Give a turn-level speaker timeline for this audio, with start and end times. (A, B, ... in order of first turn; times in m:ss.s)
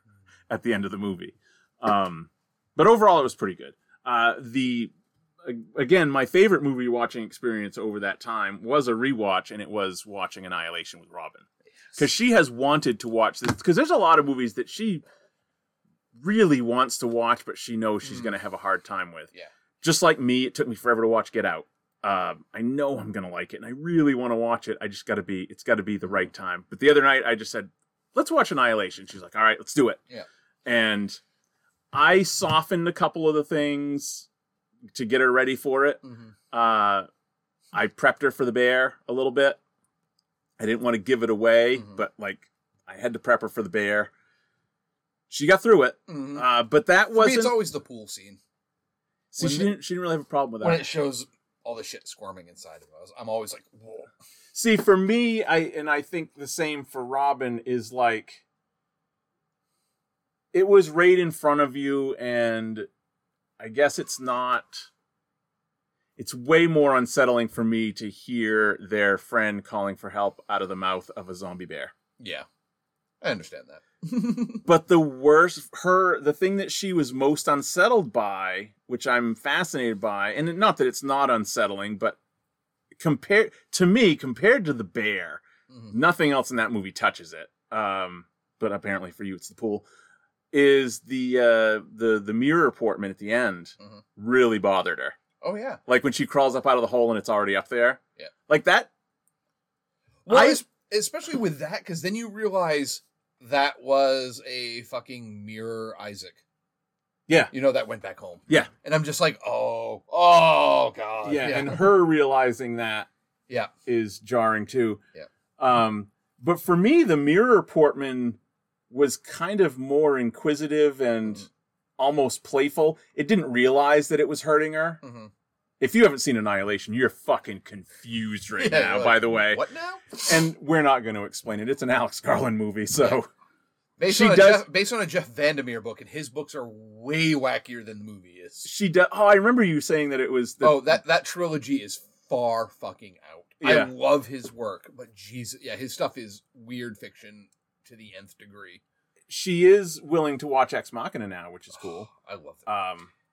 0:00.5-0:15.0 A
0:16.1-0:19.3 A
0:19.8-0:30.0 A
0:30.6-0:31.2 A
0:31.9-0:34.3 A
0:34.9-0:37.1 A
0:36.0-0:36.3 B
0:37.7-0:39.6 A
0:40.6-0:44.1 A
0:45.3-0:47.6 A
0:46.1-0:46.4 B
0:47.1-0:48.4 B
0:49.3-0:50.9 A
0:49.4-0:49.7 B
0:50.6-0:54.1 B
0:54.5-0:58.4 A
1:00.5-1:02.9 A
1:03.6-1:04.9 A
1:06.2-1:11.9 A
1:12.2-1:12.4 B
1:13.2-1:14.6 B
1:14.6-1:22.2 A
1:23.0-1:29.8 A
1:25.7-1:25.9 B
1:30.5-1:35.2 A
1:35.4-1:35.8 B
1:35.9-1:38.9 A
1:40.2-1:46.4 B
1:40.3-1:40.6 A
1:47.3-1:47.5 A
1:47.5-1:51.9 B
1:51.2-1:53.1 A
1:53.8-1:55.0 A
1:55.6-1:58.4 A
1:58.9-2:05.0 A
2:05.0-2:05.3 B
2:05.8-2:09.6 A
2:08.6-2:10.4 B
2:10.2-2:13.3 A
2:14.0-2:18.7 B
2:14.0-2:14.6 A
2:18.6-2:21.0 A
2:20.6-2:28.8 B
2:23.6-2:23.9 A
2:29.3-2:32.1 A
2:31.8-2:32.7 B
2:32.6-2:33.1 A